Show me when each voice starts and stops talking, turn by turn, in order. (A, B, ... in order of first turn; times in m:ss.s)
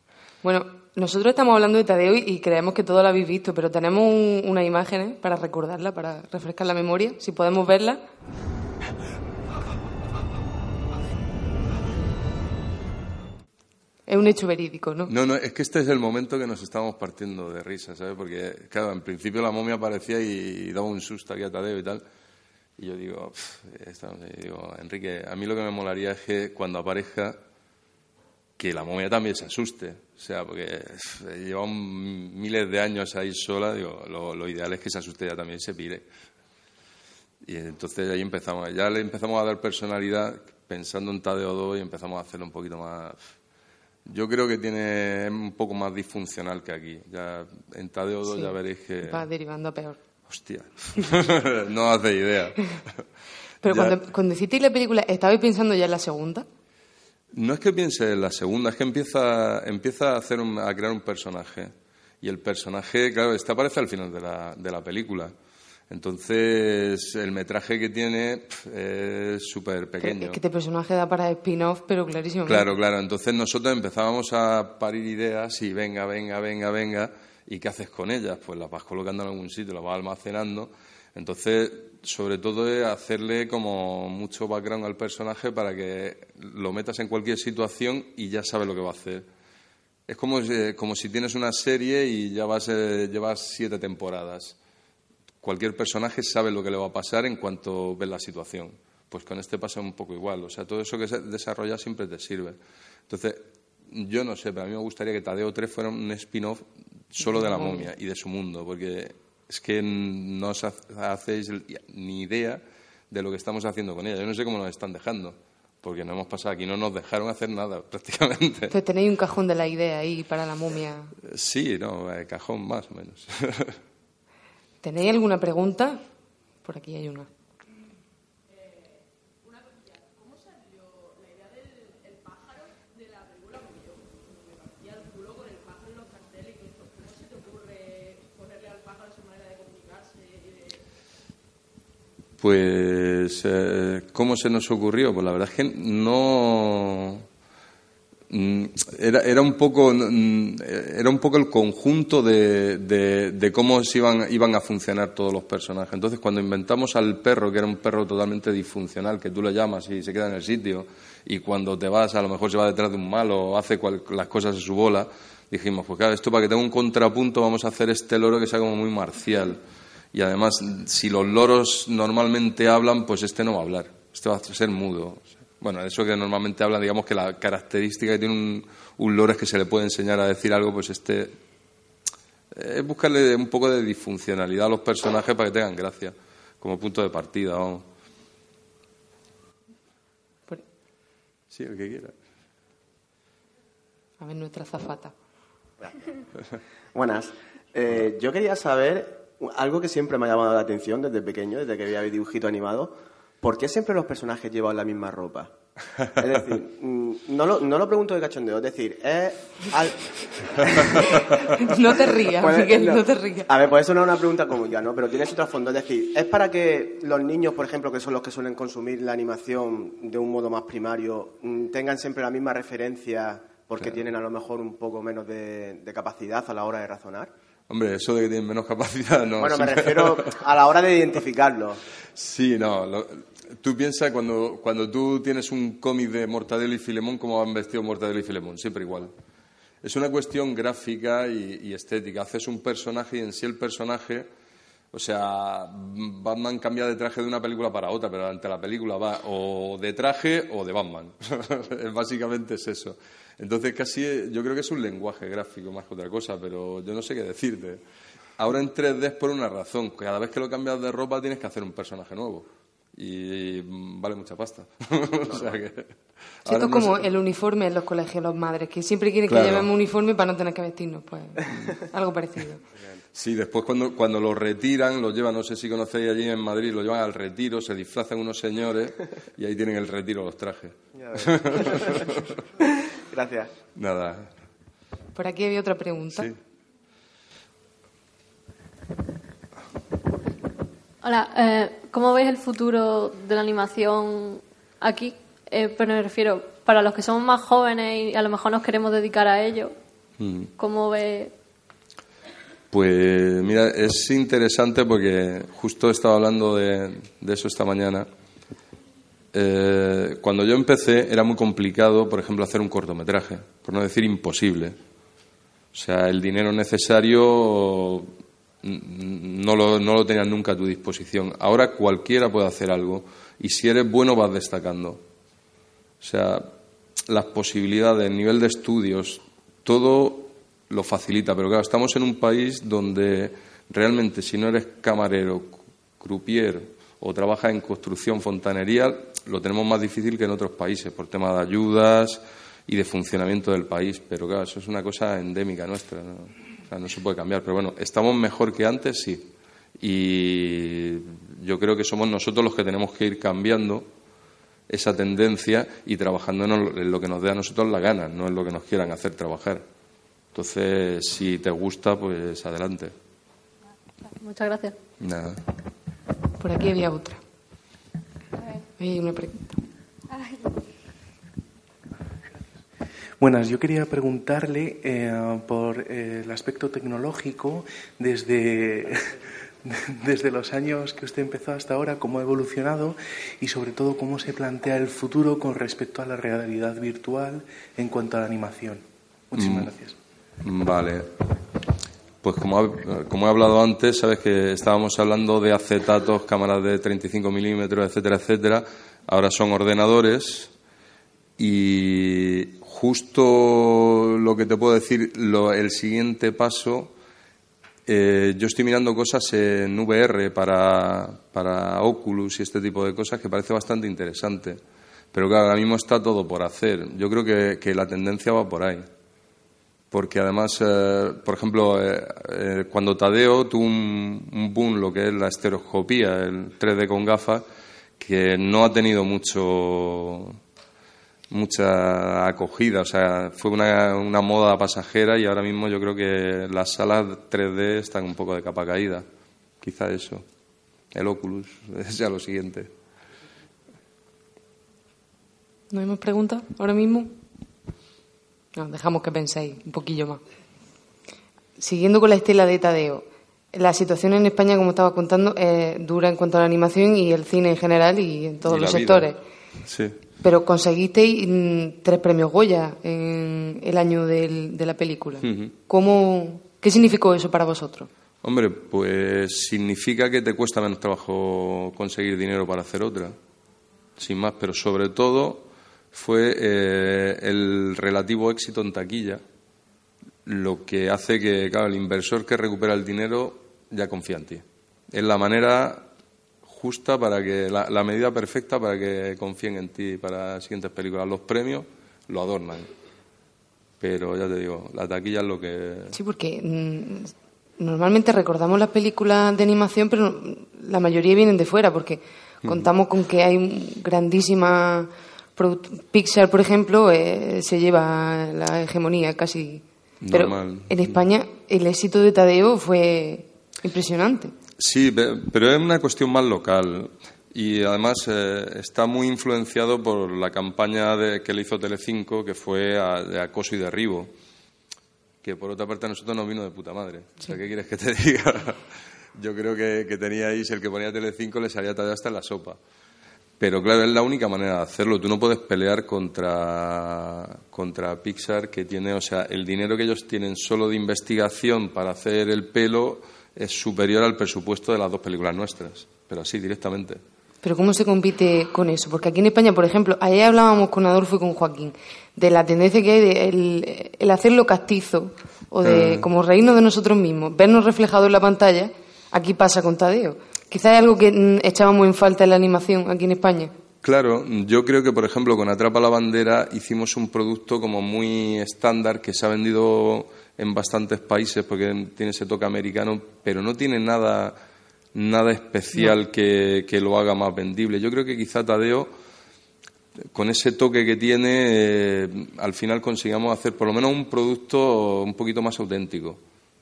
0:00.4-0:08.0 A
0:14.1-0:15.1 A
0:15.1-0:22.0 B
0:22.8-0:27.4 B
0:28.6-0:36.0 B
0:37.4-0:43.2 B
0:44.1-0:49.2 B
0:48.3-0:50.0 A
0:50.3-0:53.0 B
0:53.6-0:56.5 A
0:53.6-0:54.0 B
0:57.3-1:05.3 B
1:05.9-1:10.4 B
1:10.0-1:12.7 A
1:12.5-1:29.3 B
1:30.1-1:34.6 B
1:35.4-1:58.7 B
1:47.2-1:47.9 A
1:58.7-2:01.1 A
2:01.2-2:03.8 B
2:04.8-2:06.0 A
2:06.6-2:07.3 A
2:22.4-2:27.2 B
2:28.3-2:49.6 B
2:50.1-3:01.3 B
3:02.5-3:07.8 B
3:11.5-3:12.2 B
3:14.2-3:15.1 A
3:16.9-3:25.5 C
3:26.2-3:47.3 C
3:31.5-3:33.5 A
3:47.7-3:50.3 B
3:49.4-3:51.8 C
3:52.2-3:59.1 B
3:59.8-4:04.3 B
4:04.9-4:17.8 B
4:18.4-4:25.9 B
4:26.4-4:27.0 B
4:26.5-4:32.6 A
4:29.3-4:29.7 B
4:33.1-4:42.2 B
4:41.0-4:42.3 C
4:43.1-4:43.5 C
4:43.8-4:44.3 B
4:45.2-4:46.3 A
4:51.0-4:59.7 D
5:00.2-5:00.5 B
5:00.6-5:01.3 D
5:02.7-5:08.1 B
5:09.3-5:14.8 B
5:15.7-5:25.0 B
5:26.0-5:26.5 B
5:27.1-5:53.9 B
5:54.7-5:59.6 B
6:00.3-6:02.9 B
6:04.2-6:04.8 D
6:05.0-6:05.4 B
6:06.4-6:07.2 A
6:08.8-6:09.6 A
6:13.2-6:30.0 E
6:29.4-6:29.7 B
6:30.4-6:31.1 B
6:32.2-6:40.5 B
6:41.4-6:46.9 B
6:47.9-6:54.6 B
6:55.1-6:58.8 B
6:59.9-7:07.4 B
7:08.0-7:10.4 B
7:11.3-7:19.1 B
7:19.6-7:20.2 B
7:20.9-7:22.7 B
7:25.7-7:27.1 A
7:28.6-7:30.2 A
7:31.6-7:39.2 A
7:38.4-7:39.1 B
7:39.7-7:40.0 B
7:40.2-7:47.9 A
7:45.2-7:45.5 B
7:48.2-7:53.2 B
7:54.0-7:59.2 B
8:00.3-8:05.9 B
8:06.5-8:12.7 B
8:13.8-8:16.0 B
8:15.9-8:34.3 A
8:30.0-8:31.0 B
8:34.6-8:44.1 B
8:45.2-8:52.6 B
8:53.4-9:07.0 B
9:07.4-9:23.5 A
9:15.6-9:16.1 B
9:23.8-9:34.4 B
9:34.9-9:38.9 B
9:40.1-9:46.2 B